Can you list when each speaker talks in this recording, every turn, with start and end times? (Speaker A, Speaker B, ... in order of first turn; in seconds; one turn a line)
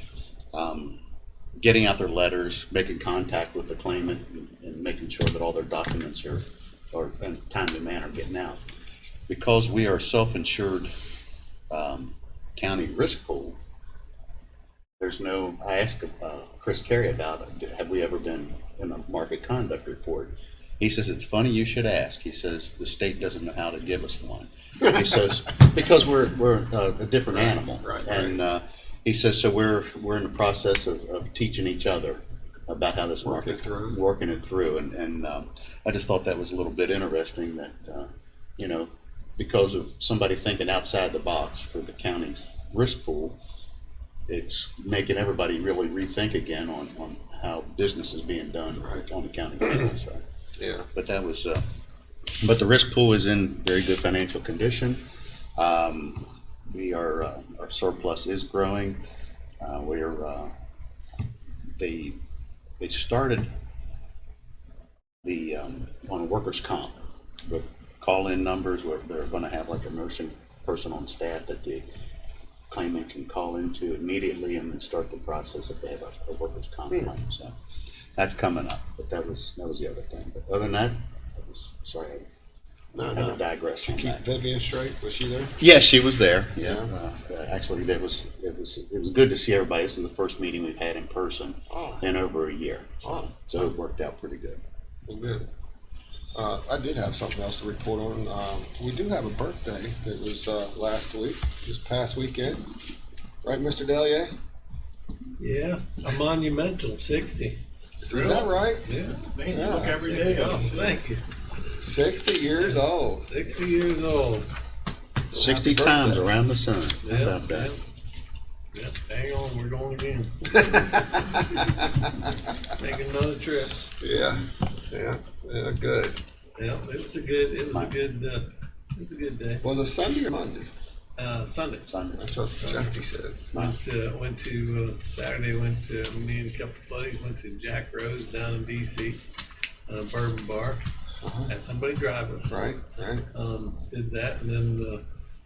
Speaker A: 0.5-1.0
Speaker A: 1.6-8.6
Speaker A: 9.3-10.9
Speaker A: 11.7-13.6
Speaker A: 15.0-43.4
Speaker B: 27.3-28.4
Speaker B: 33.2-34.0
Speaker A: 44.3-50.2
Speaker B: 50.6-50.9
Speaker A: 50.9-51.6
Speaker A: 52.4-55.0
Speaker A: 55.6-59.0
Speaker A: 59.6-60.5
Speaker A: 61.8-62.2
Speaker A: 62.8-63.5
Speaker A: 65.2-71.9
Speaker A: 72.7-77.5
Speaker A: 78.2-82.3
Speaker B: 82.9-85.5
Speaker A: 83.1-84.2
Speaker A: 85.6-94.6
Speaker B: 86.6-86.9
Speaker B: 91.7-92.0
Speaker B: 93.0-93.7
Speaker B: 95.1-95.5
Speaker B: 96.3-102.7
Speaker B: 103.4-104.3
Speaker C: 105.4-107.6
Speaker B: 108.0-108.9
Speaker D: 108.1-108.5
Speaker C: 108.8-109.2
Speaker D: 109.1-111.0
Speaker B: 109.5-110.1
Speaker C: 109.9-111.2
Speaker B: 111.6-113.3
Speaker C: 112.6-114.5
Speaker B: 115.3-116.3
Speaker A: 115.3-117.7
Speaker C: 117.0-117.8
Speaker C: 118.7-120.8
Speaker B: 120.5-122.1
Speaker C: 122.7-123.8
Speaker B: 124.0-126.2
Speaker C: 126.6-129.6
Speaker B: 129.6-130.7
Speaker C: 131.2-131.9
Speaker A: 131.9-132.2
Speaker B: 132.2-133.5
Speaker C: 132.6-133.0
Speaker C: 133.5-139.2
Speaker C: 139.9-140.8
Speaker B: 141.2-141.5
Speaker C: 141.5-142.8
Speaker B: 142.5-143.3
Speaker C: 143.3-145.0